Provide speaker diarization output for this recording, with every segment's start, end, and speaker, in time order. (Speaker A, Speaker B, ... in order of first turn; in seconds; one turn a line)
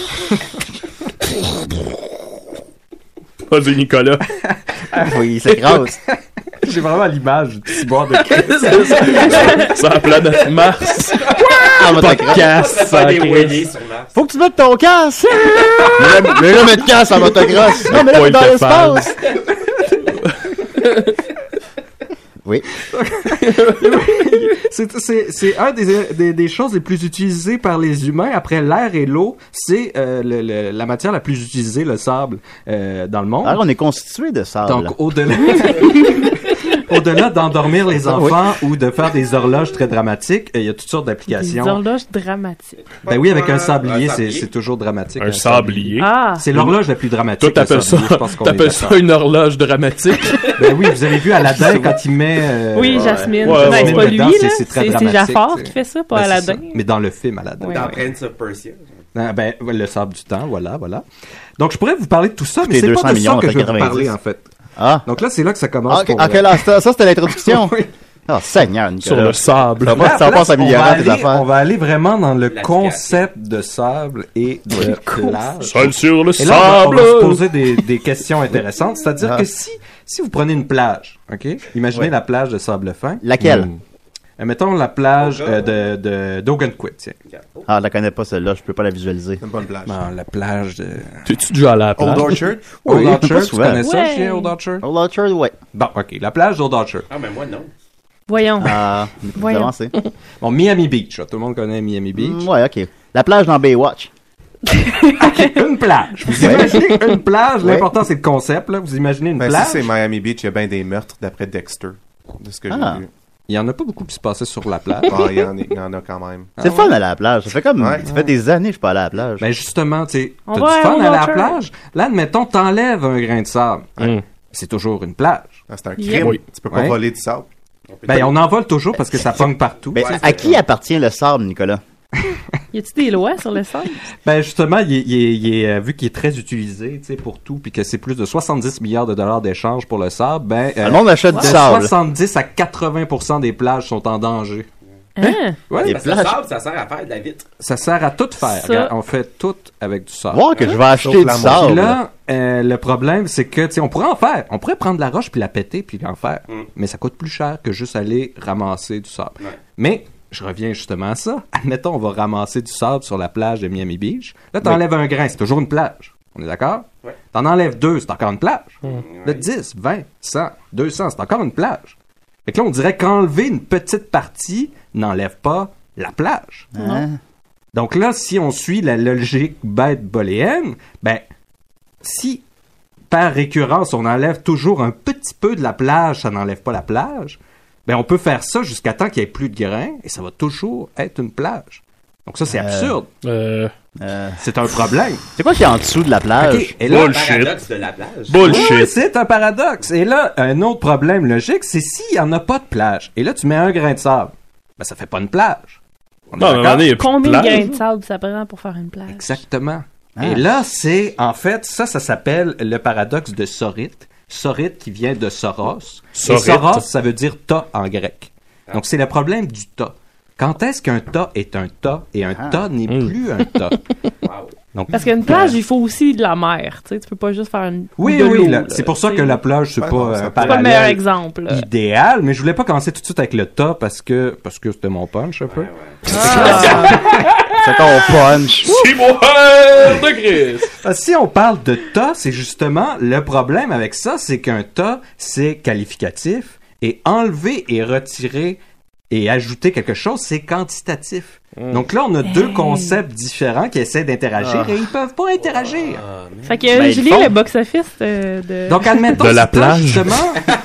Speaker A: 3.5-4.2
Speaker B: 4.4-9.7
Speaker C: 4.9-6.0
Speaker A: 8.3-13.6
Speaker C: 11.7-12.4
Speaker B: 12.2-12.5
Speaker D: 12.4-14.1
Speaker C: 14.1-19.1
Speaker A: 17.8-19.1
Speaker B: 22.9-33.6
Speaker A: 23.4-24.0
Speaker C: 33.4-34.9
Speaker B: 34.6-41.8
Speaker C: 38.0-38.4
Speaker E: 41.3-42.8
Speaker B: 43.0-49.0
Speaker D: 43.1-44.5
Speaker A: 45.2-46.8
Speaker E: 46.0-46.4
Speaker A: 47.4-50.5
Speaker B: 50.6-58.0
Speaker E: 52.7-56.8
Speaker D: 52.9-53.2
Speaker A: 53.4-54.2
Speaker E: 57.6-57.9
Speaker D: 57.7-59.0
Speaker B: 59.1-61.0
Speaker B: 61.6-64.5
Speaker C: 62.6-64.1
Speaker C: 64.8-65.0
Speaker B: 65.0-66.6
Speaker C: 65.9-67.8
Speaker B: 67.4-67.9
Speaker C: 68.3-71.5
Speaker A: 69.0-70.1
Speaker B: 69.8-83.6
Speaker D: 72.4-73.3
Speaker C: 74.7-74.9
Speaker E: 74.8-75.4
Speaker A: 75.6-77.5
Speaker C: 83.2-83.7
Speaker A: 83.4-83.7
Speaker B: 84.4-87.2
Speaker D: 85.2-85.7
Speaker D: 87.2-87.7
Speaker C: 87.7-89.4
Speaker F: 89.4-90.0
Speaker B: 89.8-91.3
Speaker A: 91.2-92.4
Speaker F: 92.0-93.2
Speaker B: 92.8-94.8
Speaker C: 92.8-93.8
Speaker E: 93.8-94.5
Speaker C: 94.8-95.5
Speaker B: 95.7-97.1
Speaker D: 97.1-97.7
Speaker E: 98.3-99.7
Speaker C: 98.6-99.9
Speaker B: 100.4-102.4
Speaker C: 102.1-104.1
Speaker E: 104.7-105.5
Speaker B: 105.1-109.9
Speaker C: 106.4-106.8
Speaker C: 107.6-107.9
Speaker F: 109.4-113.1
Speaker C: 112.7-113.0
Speaker B: 113.5-115.3
Speaker F: 115.0-116.5
Speaker B: 116.6-116.9
Speaker C: 116.6-119.5
Speaker F: 117.8-118.1
Speaker B: 119.4-125.6
Speaker E: 120.5-121.6
Speaker F: 125.7-127.5
Speaker E: 126.0-126.3
Speaker B: 126.7-127.0
Speaker D: 127.9-128.4
Speaker B: 128.1-130.5
Speaker D: 129.9-130.6
Speaker C: 129.9-131.8
Speaker E: 132.7-134.0
Speaker B: 134.2-144.7
Speaker C: 140.8-141.9
Speaker E: 145.2-145.6
Speaker B: 145.2-146.1
Speaker C: 145.8-146.4
Speaker D: 145.8-147.5
Speaker B: 147.6-171.9
Speaker E: 148.5-148.9
Speaker C: 150.3-152.0
Speaker F: 151.0-151.9
Speaker D: 168.8-169.4
Speaker B: 172.4-176.7
Speaker C: 176.7-177.2
Speaker E: 176.8-177.0
Speaker B: 177.7-181.2
Speaker B: 182.0-182.4
Speaker B: 183.1-193.1
Speaker C: 192.5-192.9
Speaker A: 193.2-193.7
Speaker C: 194.0-194.4
Speaker B: 194.4-195.2
Speaker C: 195.4-196.7
Speaker B: 196.4-197.2
Speaker A: 196.9-197.6
Speaker D: 196.9-198.6
Speaker A: 198.3-198.9
Speaker B: 198.4-205.8
Speaker B: 206.3-206.9
Speaker A: 206.4-207.7
Speaker E: 206.9-209.4
Speaker B: 209.1-223.8
Speaker C: 210.2-210.5
Speaker A: 216.1-216.8
Speaker C: 222.4-222.6
Speaker A: 222.9-223.1
Speaker D: 224.2-224.5
Speaker B: 224.7-225.5
Speaker E: 224.9-229.4
Speaker B: 228.0-237.2
Speaker F: 229.8-230.8
Speaker E: 230.4-231.7
Speaker D: 235.5-236.0
Speaker E: 236.1-237.0
Speaker A: 236.4-237.9
Speaker C: 237.6-238.8
Speaker A: 238.6-240.7
Speaker B: 240.8-248.6
Speaker B: 249.1-256.0
Speaker A: 251.6-251.8
Speaker E: 252.2-253.0
Speaker D: 255.4-256.7
Speaker E: 256.4-259.1
Speaker C: 256.7-257.3
Speaker B: 258.7-260.4
Speaker A: 259.1-260.2